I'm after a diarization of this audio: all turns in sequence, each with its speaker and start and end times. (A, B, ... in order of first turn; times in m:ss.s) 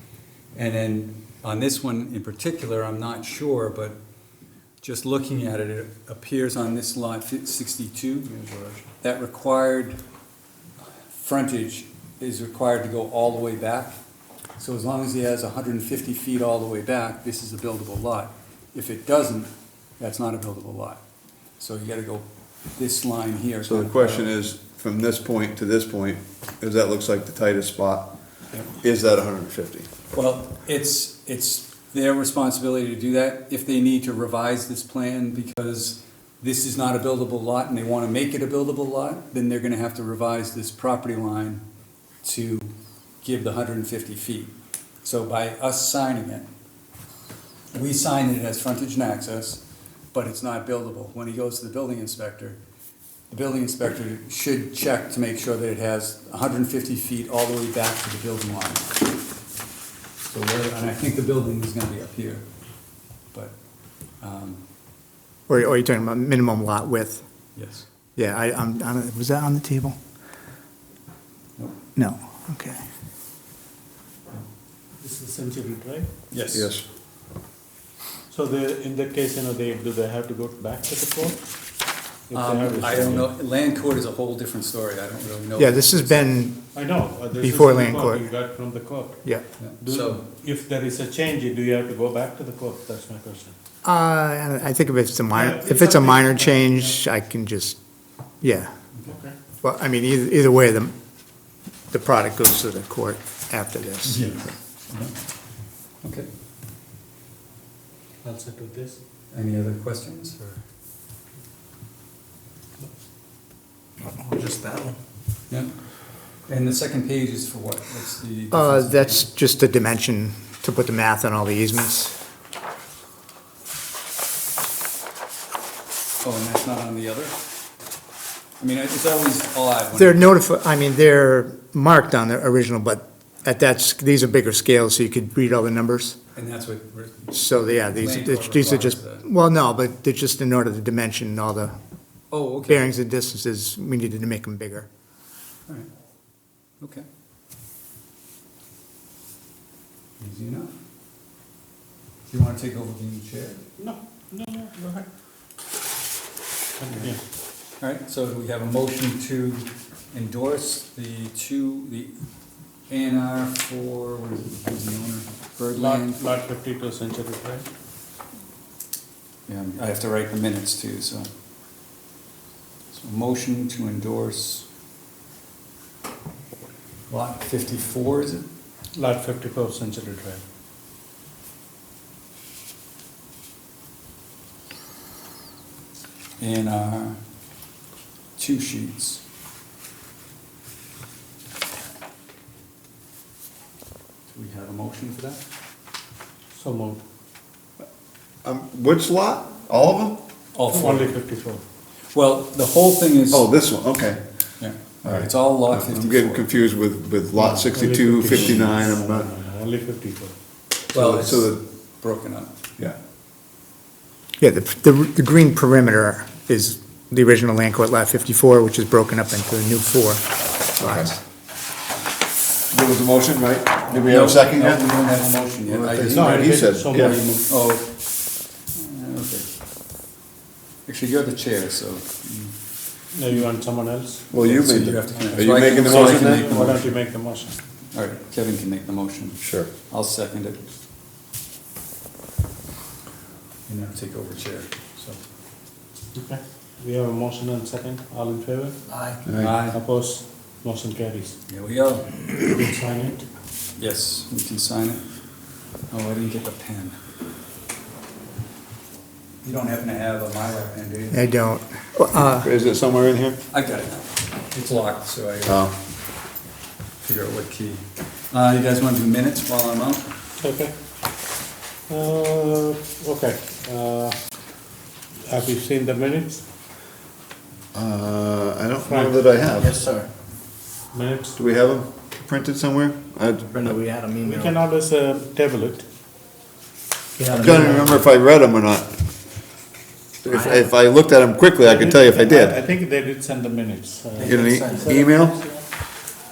0:00.5-0:04.0 A
0:04.8-0:10.0 A
0:11.1-0:14.0 A
0:14.6-0:21.0 A
0:21.6-0:22.2 A
0:22.8-0:24.3 A
0:23.6-0:28.1 B
0:28.8-0:29.9 B
0:30.1-0:41.6 A
0:42.2-0:46.5 A
0:47.7-0:49.6 A
0:50.1-0:52.6 A
0:53.3-0:58.9 A
1:00.3-1:02.4 A
1:04.2-1:04.6 A
1:05.5-1:07.5 C
1:07.5-1:07.9 A
1:08.1-1:10.0 C
1:12.0-1:12.8 C
1:15.0-1:16.1 D
1:16.3-1:16.7 A
1:16.5-1:16.8 B
1:18.3-1:21.5 D
1:22.3-1:23.3 D
1:22.3-1:26.3 A
1:25.6-1:26.7 C
1:26.7-1:29.2 D
1:27.4-1:28.2 C
1:29.6-1:30.2 A
1:29.8-1:33.6 D
1:33.8-1:37.8 C
1:35.3-1:36.9 D
1:38.4-1:38.7 C
1:39.0-1:39.3 D
1:39.6-1:40.9 C
1:41.9-1:44.5 C
1:44.0-1:45.2 A
1:46.0-1:46.3 A
1:48.2-1:49.0 D
1:49.3-1:50.6 A
1:54.2-1:54.9 E
1:55.5-1:55.9 A
1:56.4-1:59.3 A
1:58.5-2:02.1 C
2:06.2-2:07.3 A
2:08.6-2:10.4 A
2:09.9-2:16.2 C
2:16.3-2:19.2 A
2:17.3-2:21.7 C
2:22.3-2:22.8 A
2:22.7-2:24.9 C
2:26.8-2:27.0 A
2:30.2-2:30.7 A
2:32.3-2:33.6 A
2:33.8-2:35.1 D
2:36.8-2:37.2 D
2:37.8-2:42.1 A
2:42.9-2:46.2 A
2:45.7-2:47.7 D
2:49.5-2:51.3 A
2:52.9-2:54.7 A
2:57.1-2:58.4 A
2:59.0-3:00.4 D
3:06.4-3:07.2 A
3:08.4-3:09.2 A
3:14.3-3:15.4 A
3:16.5-3:17.0 D
3:18.4-3:20.2 B
3:20.5-3:21.1 A
3:20.7-3:21.6 D
3:22.1-3:23.5 A
3:23.3-3:24.2 B
3:24.6-3:26.7 A
3:25.0-3:29.3 B
3:27.4-3:27.6 A
3:27.6-3:30.3 D
3:28.3-3:28.6 A
3:30.9-3:32.5 A
3:30.9-3:31.6 B
3:34.4-3:41.2 C
3:40.8-3:41.1 B
3:42.7-3:45.1 B
3:43.9-3:48.0 A
3:45.7-3:47.2 B
3:46.0-3:47.2 D
3:48.7-3:49.5 A
3:50.8-3:52.5 A
3:53.1-3:54.3 D
3:54.3-3:56.5 B
3:54.4-3:56.9 A
3:55.1-3:57.6 D
3:57.9-4:00.6 A
3:59.4-3:59.7 B
4:03.7-4:05.2 A
4:06.1-4:08.8 D
4:09.2-4:09.5 B
4:09.4-4:09.8 A
4:09.7-4:11.4 D
4:11.5-4:12.1 A
4:12.4-4:13.2 D
4:13.8-4:15.0 A
4:15.9-4:17.0 A
4:19.4-4:21.2 A
4:21.1-4:22.5 C
4:22.4-4:23.4 B
4:23.5-4:25.7 A
4:25.4-4:25.7 B
4:27.0-4:30.1 A
4:30.4-4:30.7 D
4:31.9-4:34.2 D
4:35.2-4:36.4 D
4:37.7-4:39.8 B
4:38.8-4:39.2 D
4:39.5-4:40.1 E
4:40.9-4:41.4 D
4:41.4-4:43.6 B
4:43.5-4:44.6 E
4:44.2-4:45.8 D
4:47.2-4:48.0 E
4:47.3-4:48.9 B
4:50.2-4:52.6 B
4:50.2-4:50.7 E
4:51.6-4:55.6 D
4:54.2-4:55.1 E
4:54.2-4:55.4 B